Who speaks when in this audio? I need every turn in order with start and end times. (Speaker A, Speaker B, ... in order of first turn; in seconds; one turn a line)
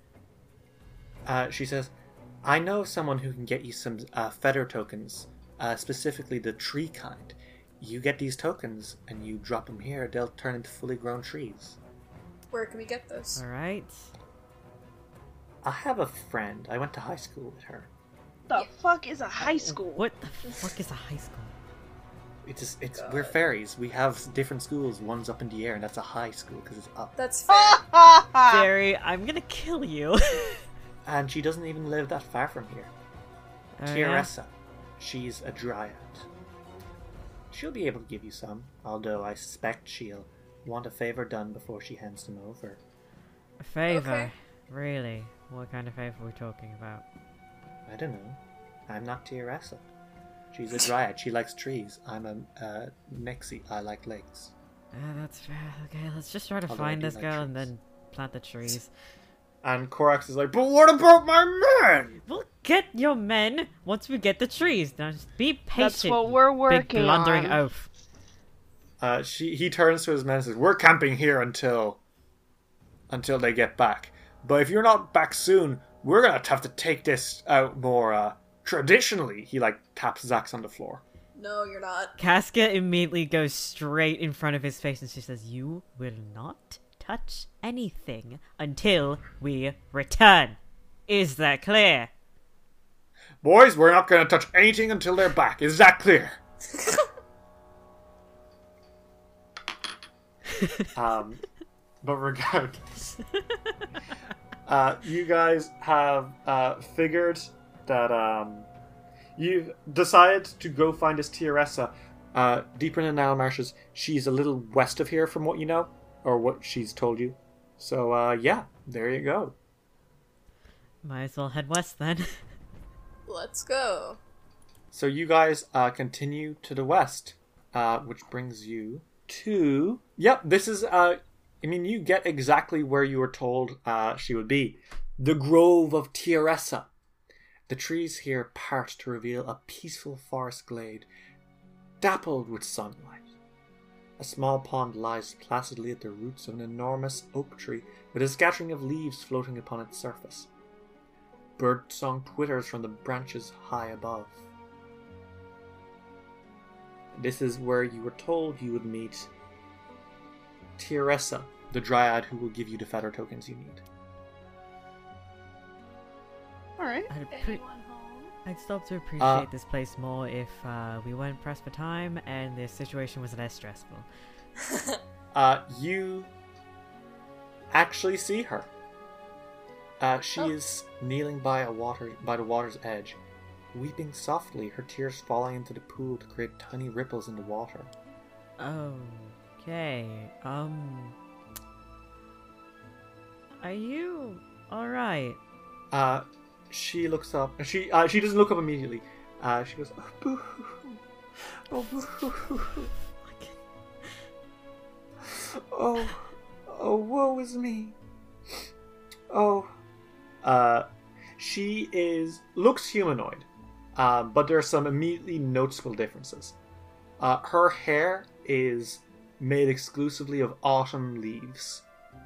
Speaker A: 1.2-1.9
Speaker A: 2.4-11.8
Speaker B: 12.5-13.4
Speaker C: 13.3-14.1
Speaker A: 15.6-17.9
Speaker D: 18.5-20.1
Speaker C: 19.4-21.5
Speaker A: 22.4-27.1
Speaker B: 23.0-23.4
Speaker B: 27.2-27.8
Speaker D: 27.5-28.7
Speaker C: 28.4-30.6
Speaker A: 31.1-32.9
Speaker C: 33.8-34.3
Speaker A: 33.8-36.3
Speaker A: 37.5-42.8
Speaker C: 43.6-47.0
Speaker B: 43.9-44.3
Speaker A: 47.9-49.9
Speaker A: 50.5-54.5
Speaker C: 54.9-58.9
Speaker A: 56.7-57.7
Speaker A: 59.6-62.2
Speaker C: 62.3-67.9
Speaker D: 65.8-67.6
Speaker A: 69.0-72.0
Speaker A: 73.1-81.0
Speaker B: 81.3-82.1
Speaker C: 82.2-92.1
Speaker A: 93.4-96.4
Speaker C: 100.6-100.8
Speaker A: 100.9-101.4
Speaker A: 102.0-103.1
Speaker A: 104.7-108.7
Speaker A: 109.3-119.5
Speaker C: 121.0-122.3
Speaker B: 123.3-124.2
Speaker A: 124.9-136.9
Speaker A: 137.7-141.1
Speaker A: 142.0-143.2
Speaker A: 144.2-150.5
Speaker A: 151.6-154.4
Speaker A: 157.1-159.3
Speaker A: 160.8-163.8
Speaker D: 166.8-167.1
Speaker C: 167.1-167.6
Speaker B: 167.3-168.3
Speaker C: 168.4-174.1
Speaker A: 169.2-169.5
Speaker B: 174.6-175.0
Speaker A: 175.3-176.3
Speaker A: 177.7-178.7
Speaker A: 180.0-183.2
Speaker A: 183.7-187.9
Speaker C: 188.6-191.2
Speaker C: 193.6-195.4
Speaker A: 195.9-201.0
Speaker A: 201.7-202.9
Speaker C: 203.2-203.6
Speaker A: 205.2-207.9
Speaker A: 209.3-209.7
Speaker A: 210.4-210.8
Speaker A: 211.4-216.6
Speaker A: 217.2-221.8